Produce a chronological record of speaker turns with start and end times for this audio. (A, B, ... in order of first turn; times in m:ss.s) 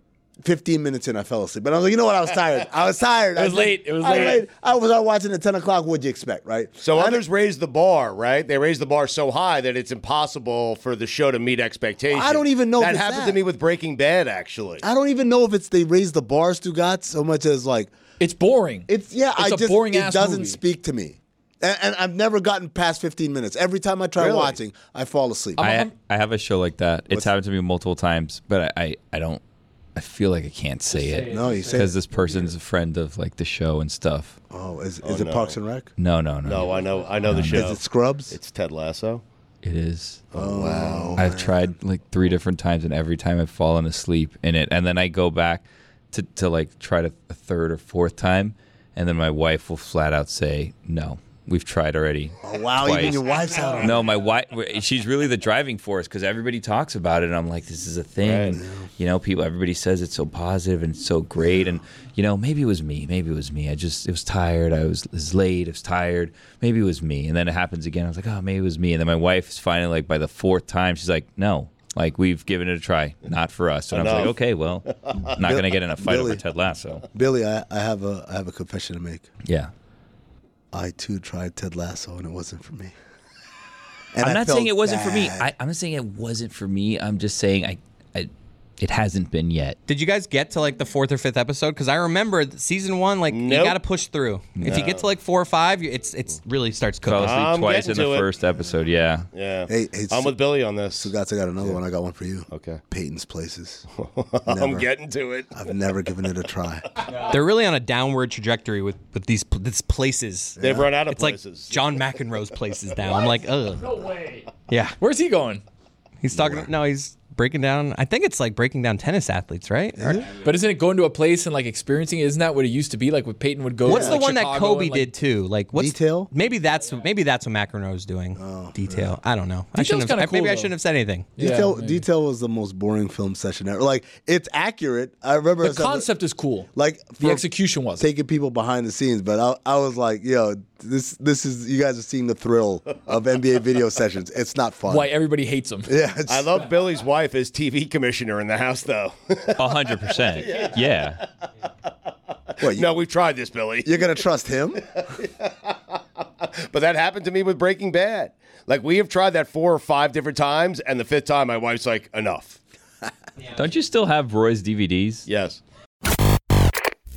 0:00.4-0:07.2 A
0:03.4-0:04.4 B
0:06.8-0:14.8 C
0:12.1-0:13.4 A
0:14.8-0:17.9 A
0:18.2-0:20.6 D
0:18.9-0:25.6 A
0:24.2-0:24.6 C
0:25.6-0:25.9 D
0:25.6-0:29.4 E
0:29.9-0:34.4 E
0:30.9-0:32.5 D
0:31.3-0:32.0 A
0:34.5-0:35.9 A
0:35.0-0:35.6 C
0:36.0-0:36.7 E
0:36.4-0:39.2 C
0:37.2-0:37.7 E
0:37.3-0:38.3 A
0:39.6-0:40.2 E
0:40.3-0:41.6 A
0:40.3-0:41.2 C
0:41.2-0:53.3 E
0:52.4-0:54.1 A
0:53.8-1:17.0 E
0:58.2-0:58.6 C
0:58.5-0:58.8 A
1:01.4-1:01.8 A
1:13.9-1:14.4 C
1:15.4-1:16.4 A
1:17.1-1:19.3 A
1:19.4-1:19.7 E
1:20.7-1:22.9 A
1:24.1-1:25.5 A
1:24.2-1:29.8 E
1:29.9-1:37.4 B
1:33.2-1:33.8 C
1:34.5-1:34.8 E
1:34.6-1:35.1 C
1:37.0-1:39.3 E
1:37.2-1:38.3 C
1:39.3-1:41.8 C
1:39.7-1:43.9 A
1:42.5-1:42.8 C
1:44.0-1:45.7 C
1:44.5-1:44.9 A
1:45.5-1:46.9 A
1:47.2-1:53.9 B
1:50.6-1:50.9 A
1:50.6-1:52.2 C
1:53.8-1:54.5 D
1:54.7-1:55.0 B
1:55.0-1:55.6 D
1:56.2-2:00.2 B
1:56.3-1:56.7 A
2:00.0-2:00.2 A
2:00.2-2:05.1 D
2:03.8-2:04.2 A
2:03.8-2:11.3 B
2:05.7-2:06.3 A
2:08.4-2:09.2 A
2:09.7-2:10.8 D
2:11.4-2:12.0 D
2:11.4-2:16.1 A
2:15.6-2:18.1 D
2:16.7-2:25.1 A
2:24.9-2:25.9 D
2:25.9-2:26.5 A
2:26.3-2:30.9 C
2:29.6-2:31.2 E
2:32.6-2:32.9 A
2:32.6-2:34.2 C
2:33.8-2:34.8 A
2:34.9-2:42.6 C
2:43.5-2:45.3 E
2:45.2-2:45.6 C